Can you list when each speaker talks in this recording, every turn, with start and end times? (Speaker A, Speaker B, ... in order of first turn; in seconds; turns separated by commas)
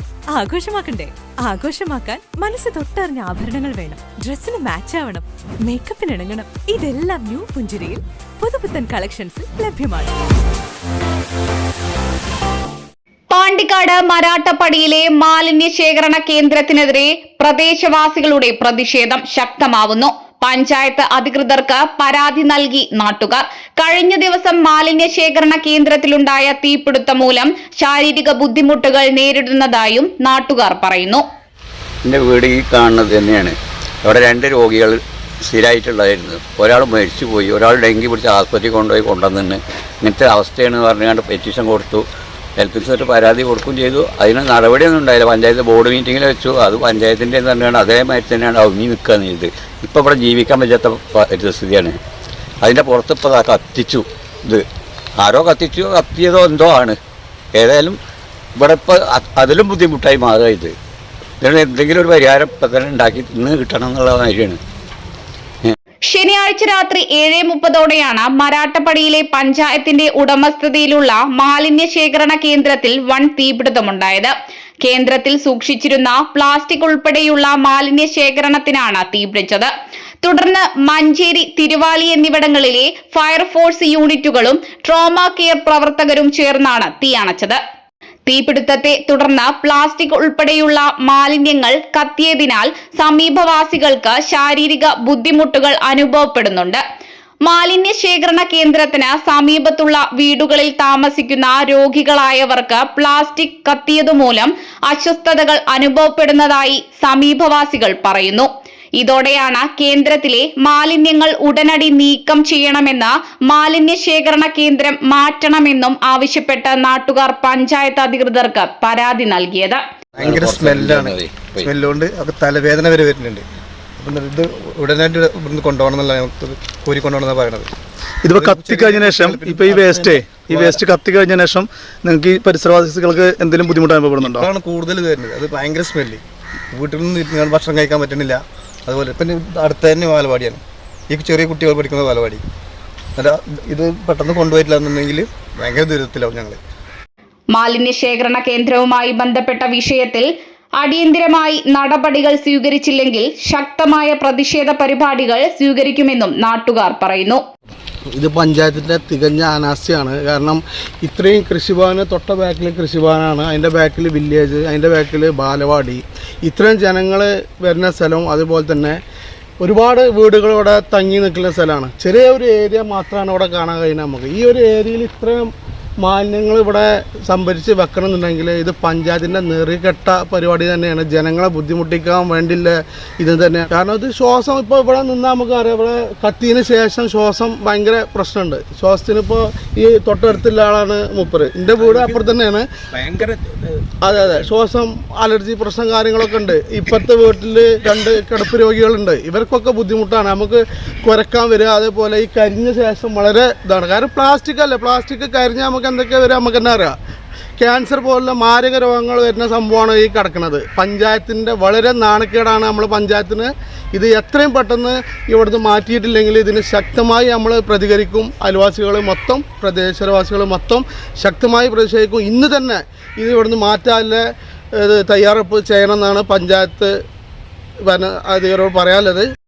Speaker A: 0.3-10.1, Speaker B: 13.3-31.2, Speaker C: 32.0-42.0, Speaker C: 42.6-52.0, Speaker C: 52.6-54.6, Speaker C: 55.2-57.0, Speaker C: 57.5-58.0, Speaker C: 58.6-60.7, Speaker C: 61.4-64.6, Speaker B: 66.1-79.7, Speaker B: 80.2-87.6, Speaker B: 88.2-96.8, Speaker B: 97.5-108.5, Speaker B: 109.0-119.8, Speaker C: 120.2-121.7, Speaker D: 120.2-123.4, Speaker D: 124.0-127.7, Speaker E: 128.2-134.5, Speaker D: 128.3-130.8, Speaker D: 134.2-136.2, Speaker D: 136.7-142.4, Speaker D: 143.2-146.6, Speaker B: 147.5-150.3, Speaker B: 150.8-157.4, Speaker F: 158.1-169.0, Speaker F: 169.6-192.7, Speaker F: 194.0-206.9, Speaker F: 207.6-224.2, Speaker F: 224.8-226.9, Speaker F: 227.8-229.3